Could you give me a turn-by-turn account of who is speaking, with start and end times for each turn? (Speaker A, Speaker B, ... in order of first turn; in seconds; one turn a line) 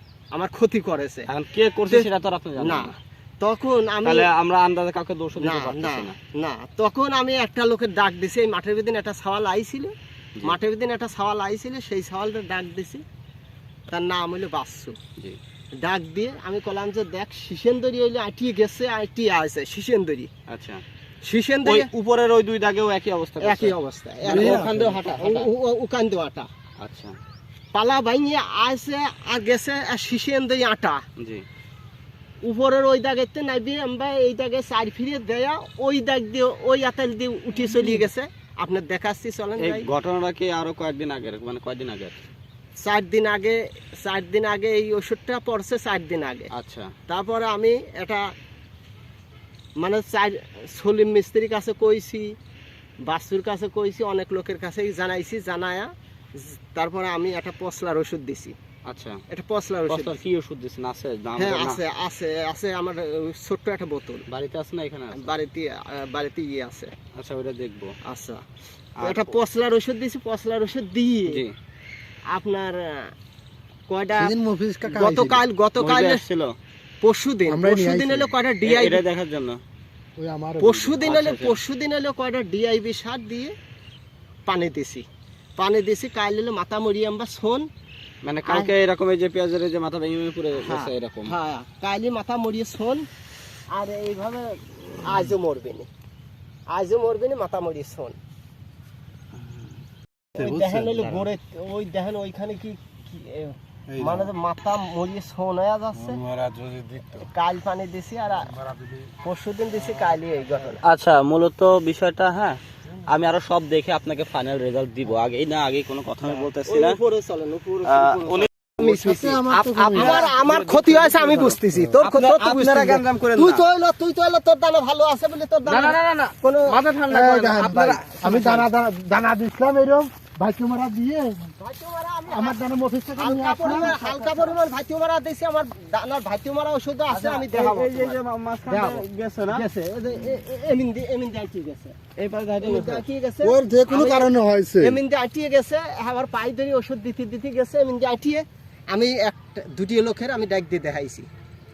Speaker A: 0.3-1.3
Speaker B: 1.3-3.0
Speaker A: 1.9-4.3
Speaker B: 4.0-6.2
Speaker A: 5.4-9.9
Speaker A: 10.4-13.0
Speaker A: 13.9-15.0
Speaker A: 15.8-20.3
Speaker B: 20.5-20.8
Speaker A: 21.2-21.9
Speaker B: 21.6-25.5
Speaker A: 23.4-26.5
Speaker C: 24.3-24.7
Speaker B: 26.8-27.1
Speaker A: 27.7-31.0
Speaker B: 31.2-31.4
Speaker A: 32.4-39.9
Speaker C: 37.7-38.0
Speaker B: 39.6-42.2
Speaker A: 42.8-46.5
Speaker B: 46.5-46.9
Speaker A: 47.1-48.2
Speaker A: 49.8-52.3
Speaker A: 53.1-58.5
Speaker B: 58.9-59.2
Speaker A: 59.3-60.2
Speaker B: 59.9-61.8
Speaker A: 61.4-64.2
Speaker B: 64.3-65.3
Speaker A: 65.1-66.9
Speaker B: 67.2-67.9
Speaker A: 68.0-68.4
Speaker B: 69.0-69.4
Speaker A: 69.0-71.4
Speaker A: 72.3-73.1
Speaker A: 73.9-74.3
Speaker C: 74.2-75.4
Speaker A: 74.8-76.2
Speaker B: 75.8-76.5
Speaker A: 77.0-79.0
Speaker C: 77.5-78.3
Speaker B: 78.6-79.6
Speaker C: 80.2-81.0
Speaker A: 80.6-83.5
Speaker B: 81.0-81.6
Speaker A: 84.5-85.0
Speaker A: 85.6-87.7
Speaker B: 88.2-91.3
Speaker A: 88.4-88.7
Speaker A: 90.6-93.0
Speaker A: 93.7-95.9
Speaker A: 96.7-98.2
Speaker A: 100.3-106.2
Speaker C: 100.4-101.2
Speaker C: 103.9-104.3
Speaker C: 105.9-107.2
Speaker A: 107.2-108.5
Speaker C: 108.5-109.1
Speaker A: 109.2-110.8
Speaker B: 110.8-117.0
Speaker A: 116.2-126.8
Speaker B: 117.8-118.5
Speaker C: 118.8-120.2
Speaker B: 119.5-123.6
Speaker C: 121.7-122.0
Speaker B: 125.7-128.7
Speaker C: 127.1-131.5
Speaker A: 131.6-142.0
Speaker C: 132.3-134.0
Speaker B: 133.6-134.6
Speaker B: 137.1-139.6
Speaker B: 142.2-143.0
Speaker A: 142.6-151.3
Speaker C: 143.4-145.0